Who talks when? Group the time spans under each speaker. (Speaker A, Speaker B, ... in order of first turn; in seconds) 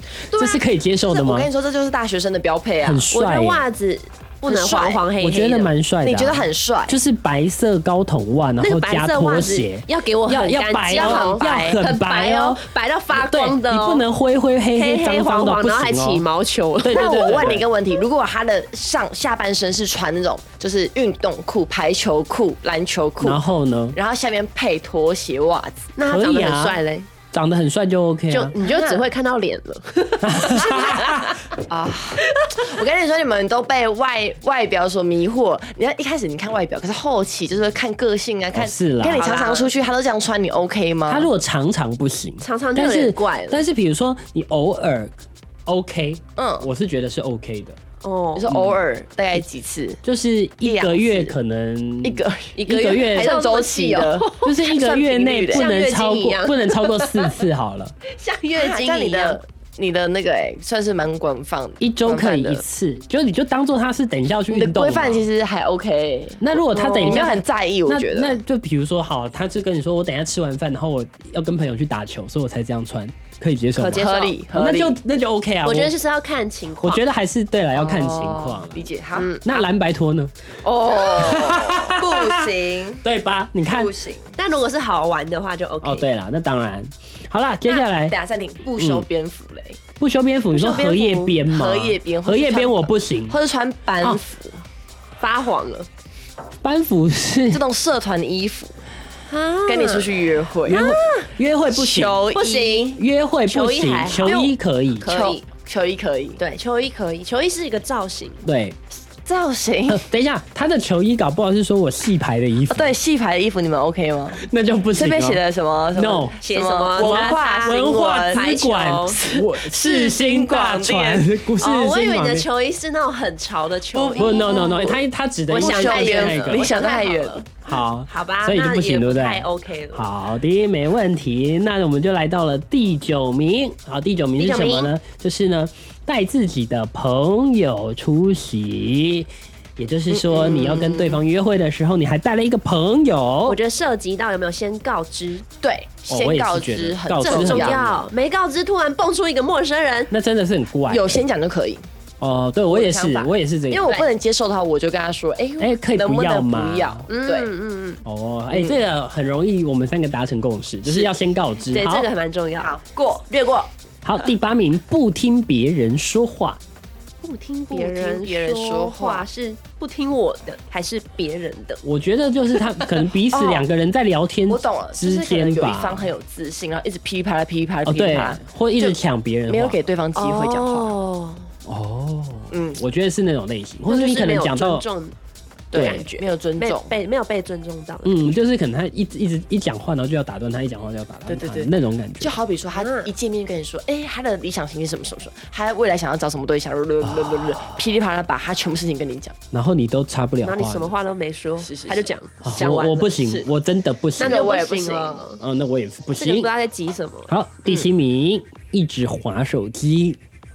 Speaker A: 0.2-3.1, 4.5-5.0, 6.0-7.0, 10.9-11.8, 16.9-23.4, 23.9-25.9, 28.6-29.0, 30.6-31.1, 31.7-41.3, 46.4-46.7, 48.3-50.0, 50.6-51.3, 52.0-55.7, 58.5-62.6, 64.5-66.4, 67.0-68.4, 73.9-75.0, 77.7-79.5, 80.6-83.0, 83.7-84.3, 87.7-89.8, 91.5-94.6, 97.5-98.7, 99.7-100.9, 101.7-103.0, 104.2-106.4, 109.2-110.0, 112.7-121.3, 123.9-125.0, 125.5-127.5, 140.1-141.2, 145.6-147.8, 150.9-151.8, 152.7-157.5, 158.5-158.8, 160.8-161.1, 162.6-163.7, 167.7-169.3, 173.3-173.6, 174.5-179.0, 179.5-180.9, 182.5-182.8, 185.7-186.9, 191.3-199.3, 201.6-202.1, 204.2-205.2
Speaker B: 0.3-1.5, 2.8-3.6, 5.2-16.2, 16.8-17.6, 23.2-24.0, 26.0-26.8, 27.3-28.5, 30.2-31.3, 38.5-39.3, 41.1-45.1, 45.6-47.8, 48.5-48.8, 50.0-53.4, 54.4-57.9, 61.8-65.3, 66.4-75.9, 76.8-78.8, 79.4-80.3, 80.9-83.9, 85.8-88.2, 88.8-89.0, 90.0-93.4, 96.6-97.6, 100.7-102.3, 103.0-105.0, 108.4-108.8, 109.9-112.9, 114.4-115.4, 115.9-116.3, 117.0-122.5, 124.1-126.7, 127.6-143.6, 146.1-148.0, 150.1-151.2, 152.2-153.9, 155.6-157.1, 158.0-162.1, 164.0-166.6, 171.8-176.1, 177.8-179.8, 181.7-184.8, 185.7-186.0, 188.0-192.3, 197.0-197.8, 199.5-200.9, 202.4-204.5, 205.4-206.5, 207.3-210.2
Speaker C: 3.1-5.7, 8.6-14.1, 14.7-17.4, 25.9-27.1, 28.3-31.4, 32.2-32.7, 39.1-39.7, 42.4-43.6, 48.0-48.5, 52.5-54.5, 55.5-57.4, 58.0-59.4, 66.7-67.3, 73.8-74.3, 75.6-77.0, 79.2-79.6, 84.3-86.1, 90.5-91.4, 95.2-95.9, 99.3-100.1, 100.7-101.3, 102.3-104.3, 105.0-105.4, 106.4-108.4, 116.4-119.2, 121.6-125.0, 125.5-127.5, 128.1-130.1, 134.4-134.9, 143.4-145.4, 147.2-150.1, 157.1-158.0, 161.7-162.8, 167.2-171.8, 180.1-181.5, 183.8-185.1, 185.7-188.4, 192.7-193.1, 200.4-203.4, 204.2-205.4, 206.2-207.3